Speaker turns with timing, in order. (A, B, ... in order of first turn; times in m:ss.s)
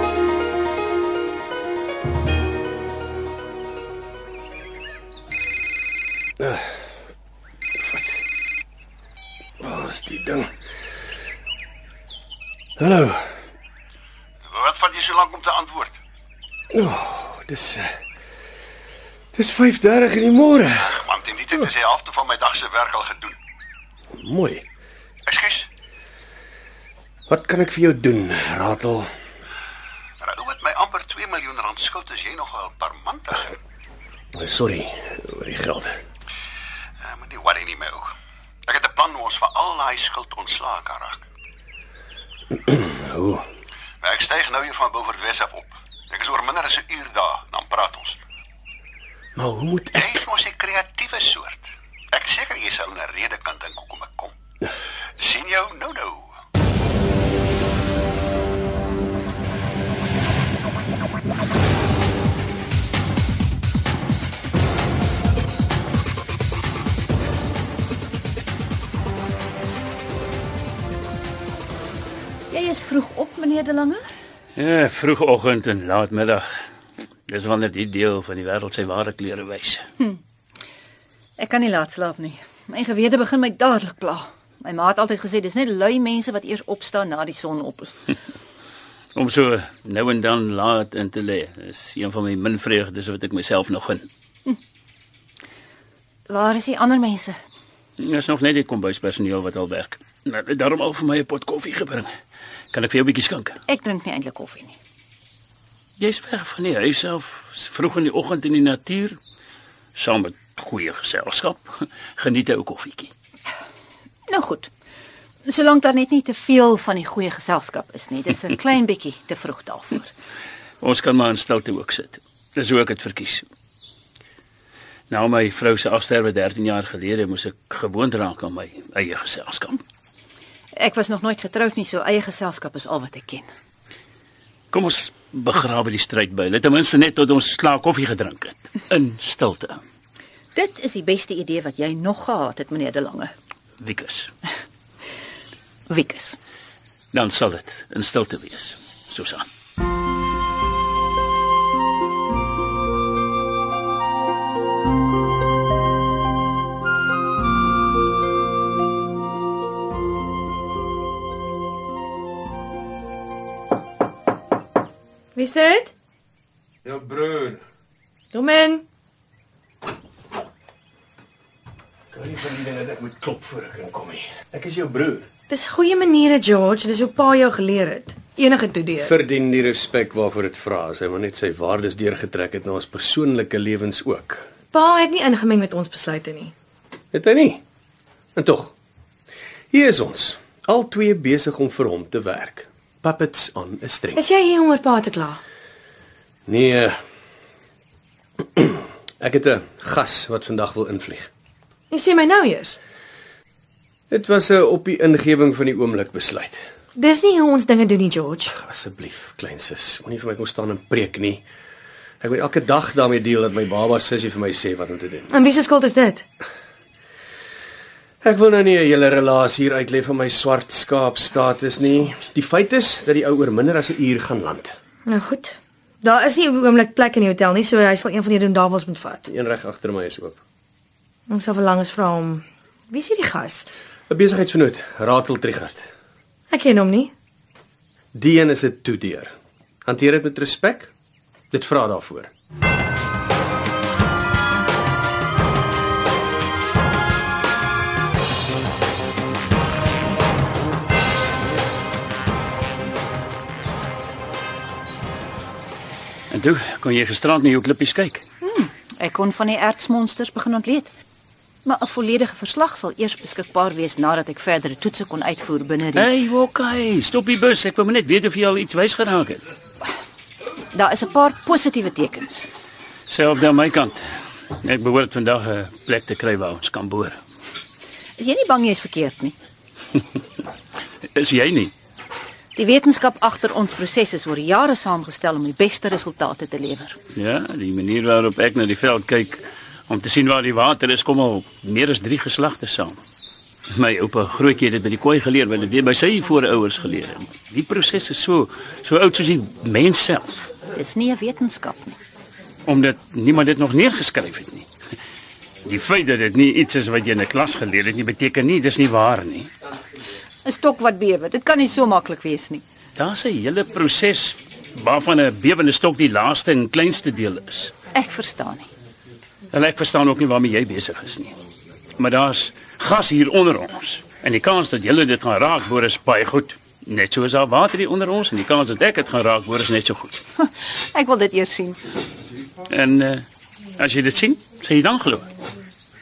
0:06.4-0:06.7 A
0:07.8-0:08.2 A
0:09.6-0:10.5 A
0:12.8-0:13.3 A
0:14.5-0:16.0 B
0:16.7-0:17.9 A
0:19.3-0:21.0 A
0:20.8-0:23.4 B
0:24.1-0:24.6 A
0:25.2-0:25.7 B
0:27.3-0:29.1 A
0:30.2-0:33.5 B
0:34.4-0:35.9 A
0:37.0-0:38.1 B
0:38.7-0:41.2 B
0:42.5-0:43.4 A
0:44.0-0:48.2 B
0:49.4-0:50.2 A
0:49.9-0:54.3 B
0:55.2-0:56.3 B
1:12.5-1:14.0 C
1:14.6-1:16.5 D
1:17.3-1:19.8 D
1:21.4-1:28.1 C
1:29.1-1:34.1 D
1:36.3-1:37.4 C
1:38.0-1:42.1 D
1:42.7-1:43.6 D
1:43.7-1:44.8 C
1:46.0-1:49.2 D
1:49.9-1:53.1 D
1:54.3-1:54.7 C
1:55.4-2:00.1 C
2:00.8-2:03.4 D
2:05.1-2:09.8 D
2:10.8-2:13.5 C
2:14.7-2:19.8 D
2:20.5-2:23.3 C
2:23.8-2:24.3 D
2:25.9-2:26.4 C
2:27.1-2:29.5 D
2:45.3-2:45.9 E
2:46.8-2:47.6 A
2:48.3-2:48.8 E
2:52.1-2:55.3 A
2:55.5-2:59.1 E
2:59.0-3:04.5 A
3:04.7-3:06.5 E
3:07.1-3:07.6 A
3:08.4-3:08.7 A
3:09.7-3:14.2 A
3:14.2-3:15.4 E
3:16.4-3:17.0 A
3:18.5-3:21.3 A
3:21.9-3:22.8 E
3:24.1-3:26.6 A
3:27.0-3:28.5 E
3:28.5-3:31.4 A
3:32.2-3:35.3 A
3:35.3-3:36.3 E
3:38.2-3:44.7 A
3:45.0-3:49.3 E
3:49.3-3:50.4 A
3:51.3-3:53.7 E
3:54.1-3:55.8 A
3:56.5-3:57.1 E
3:58.1-3:59.3 A
3:59.8-4:00.9 A
4:01.5-4:02.3 A
4:16.3-4:18.2 D
4:18.4-4:20.9 C
4:21.6-4:26.1 C
4:25.9-4:29.4 D
4:30.7-4:32.5 C
4:33.1-4:34.0 D
4:34.6-4:37.2 D
4:38.2-4:39.3 C
4:41.1-4:41.7 D
4:42.5-4:47.0 C
4:47.1-4:53.0 D
4:53.7-5:00.5 D
5:00.7-5:02.0 C
5:02.6-5:04.7 D
5:05.6-5:09.5 D
5:10.4-5:12.6 C
5:13.0-5:17.7 D
5:17.9-5:18.7 C
5:19.5-5:21.4 D
5:22.0-5:30.2 D
5:30.4-5:31.8 C
5:32.7-5:33.2 D
5:33.8-5:35.3 D